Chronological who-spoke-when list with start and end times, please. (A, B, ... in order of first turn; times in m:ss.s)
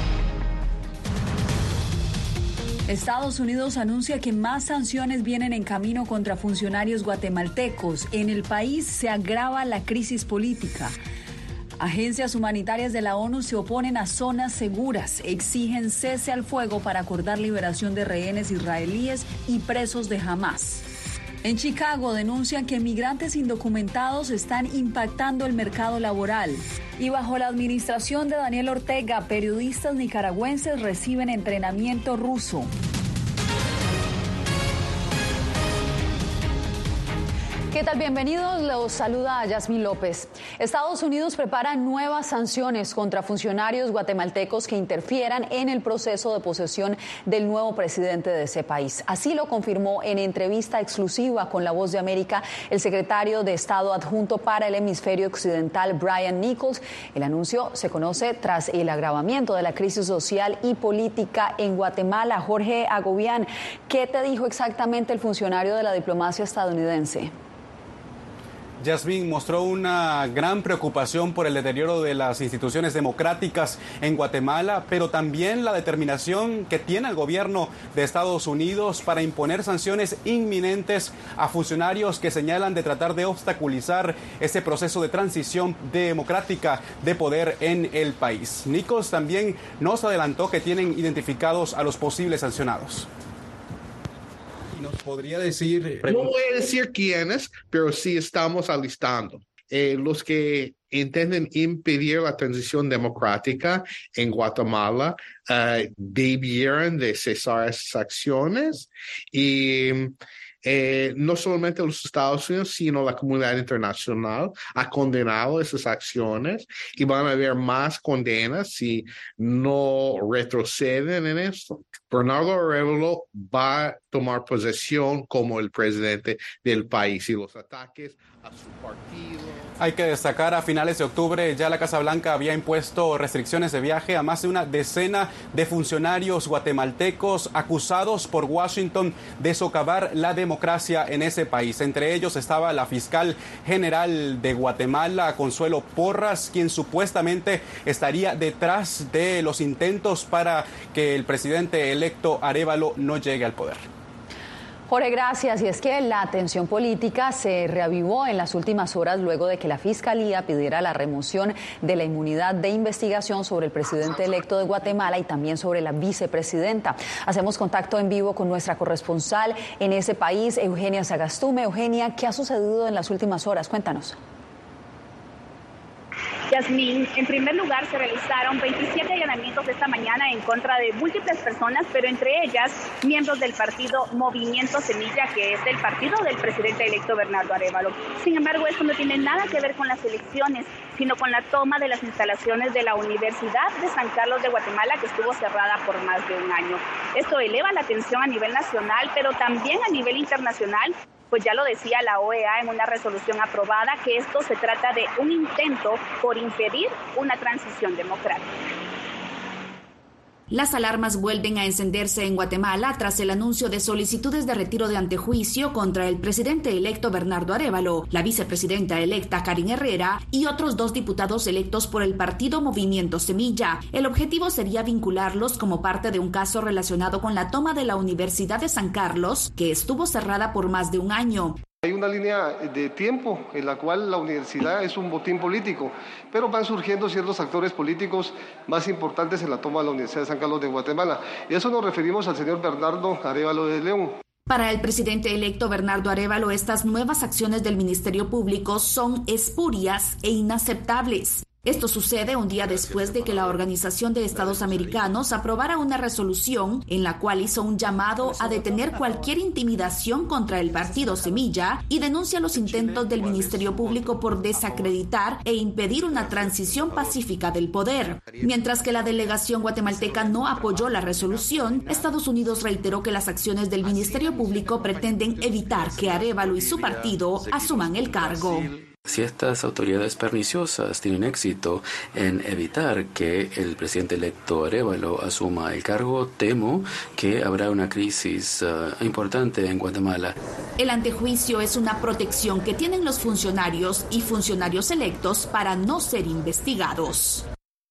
0:02.9-0:11.0 A
0:11.8-0:20.8 A
0:21.4-0:32.7 A
0:37.7-1:07.3 A
1:08.8-1:33.1 B
1:34.8-1:36.2 B
1:36.0-2:09.6 C
2:09.8-2:33.8 B
2:34.9-2:54.2 A
2:56.5-3:28.5 D
3:30.5-3:51.6 E
3:51.8-4:04.2 F
4:04.5-4:38.7 E
4:39.1-4:50.3 G
4:50.8-4:57.4 E